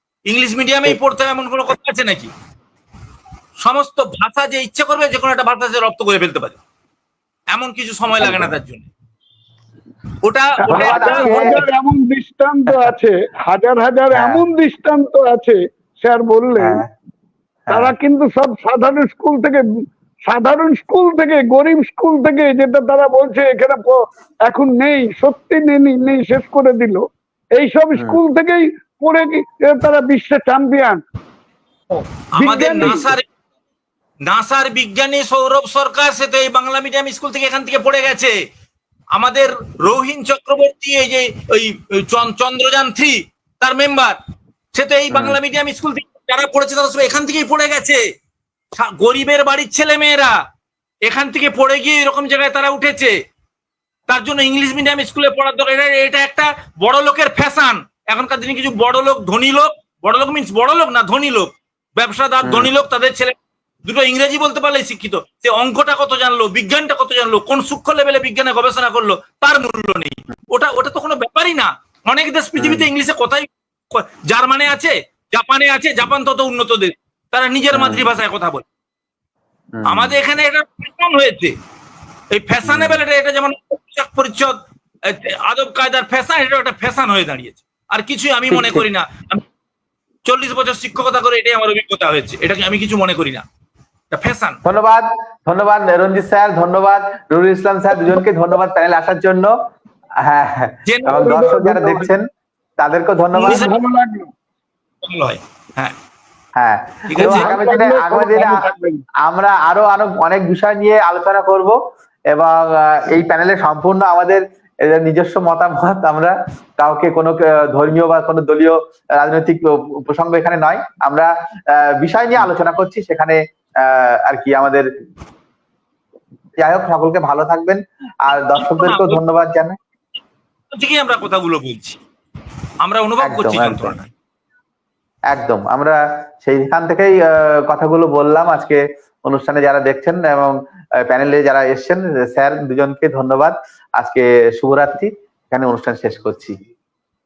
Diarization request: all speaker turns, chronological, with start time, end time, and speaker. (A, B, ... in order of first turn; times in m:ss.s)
0:00.3-0:02.3 A
0:03.6-0:06.6 A
0:07.5-0:08.9 A
0:08.2-0:08.6 B
0:10.2-0:11.6 A
0:10.6-0:16.8 C
0:10.7-0:11.6 B
0:14.1-0:14.4 B
0:16.6-0:16.9 B
0:17.7-0:17.9 B
0:17.7-0:19.6 C
0:20.3-0:27.0 C
0:27.6-0:31.0 C
0:31.9-0:33.2 A
0:32.4-0:33.1 C
0:34.3-0:38.3 A
0:39.1-0:44.2 A
0:44.7-0:48.0 A
0:45.1-0:45.4 B
0:48.7-0:50.3 A
0:51.0-0:53.1 A
0:54.1-1:18.6 A
1:02.4-1:02.7 B
1:12.6-1:12.9 B
1:17.7-1:18.1 B
1:19.7-1:20.2 B
1:19.8-1:21.5 A
1:22.3-1:29.4 A
1:22.6-1:23.0 B
1:28.5-1:28.8 B
1:30.2-1:33.4 A
1:34.1-1:34.6 A
1:34.6-1:39.5 B
1:40.2-1:42.2 B
1:40.8-1:41.4 A
1:41.1-1:42.1 C
1:42.8-1:43.7 B
1:43.4-1:44.3 C
1:43.4-1:43.7 A
1:45.0-1:45.9 A
1:46.5-1:48.6 B
1:47.1-1:47.5 A
1:47.2-1:49.0 C
1:49.2-1:51.8 B
1:52.3-2:04.9 B
2:06.6-2:09.8 B
2:08.6-2:09.2 A
2:10.7-2:12.0 A
2:12.8-2:14.1 A
2:13.2-2:14.0 B
2:15.3-2:26.6 B